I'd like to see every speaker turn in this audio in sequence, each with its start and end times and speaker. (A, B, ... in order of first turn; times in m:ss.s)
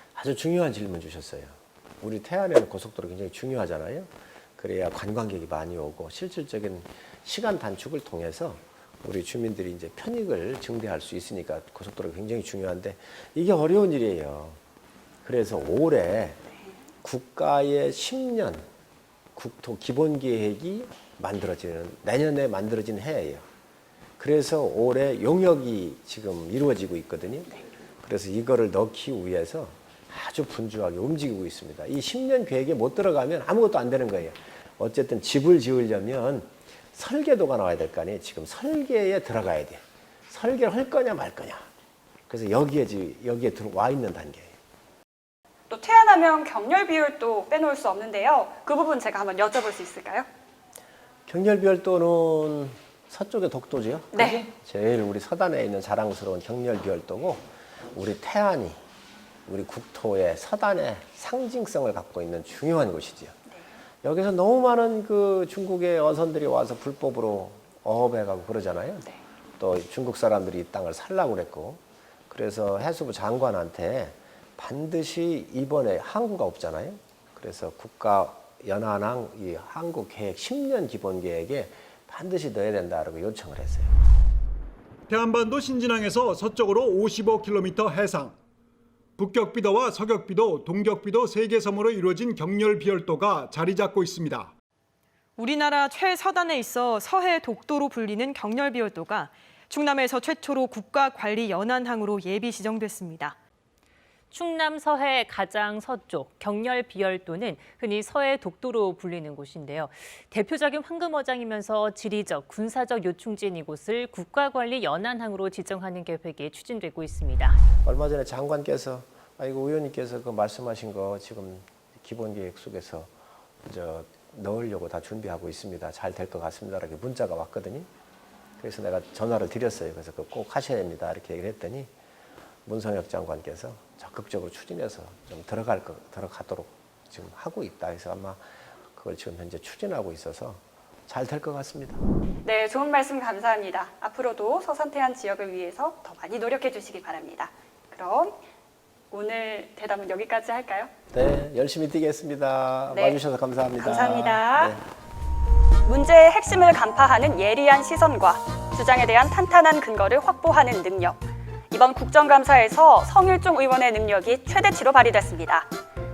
0:00.1-0:14.6 A
0:15.2-0:16.4 A
0:17.0-0:18.7 A
0:19.3-0:23.4 A
0:24.2-0:41.6 A
0:42.3-0:44.5 A
0:45.7-0:50.3 B
0:51.2-0:58.8 A
0:54.1-0:54.4 B
0:59.5-1:03.4 A
1:04.0-1:09.0 A
1:09.6-1:23.9 A
1:25.1-1:28.4 C
1:29.2-1:34.5 C
1:35.4-1:43.4 D
1:44.3-1:57.6 E
1:57.8-2:03.1 A
2:03.6-2:07.9 A
2:08.6-2:11.9 A
2:12.6-2:22.0 A
2:22.4-2:28.4 B
2:29.1-2:30.9 B
2:31.1-2:34.8 A
2:32.9-2:33.2 B
2:33.8-2:34.7 B
2:35.8-2:45.7 B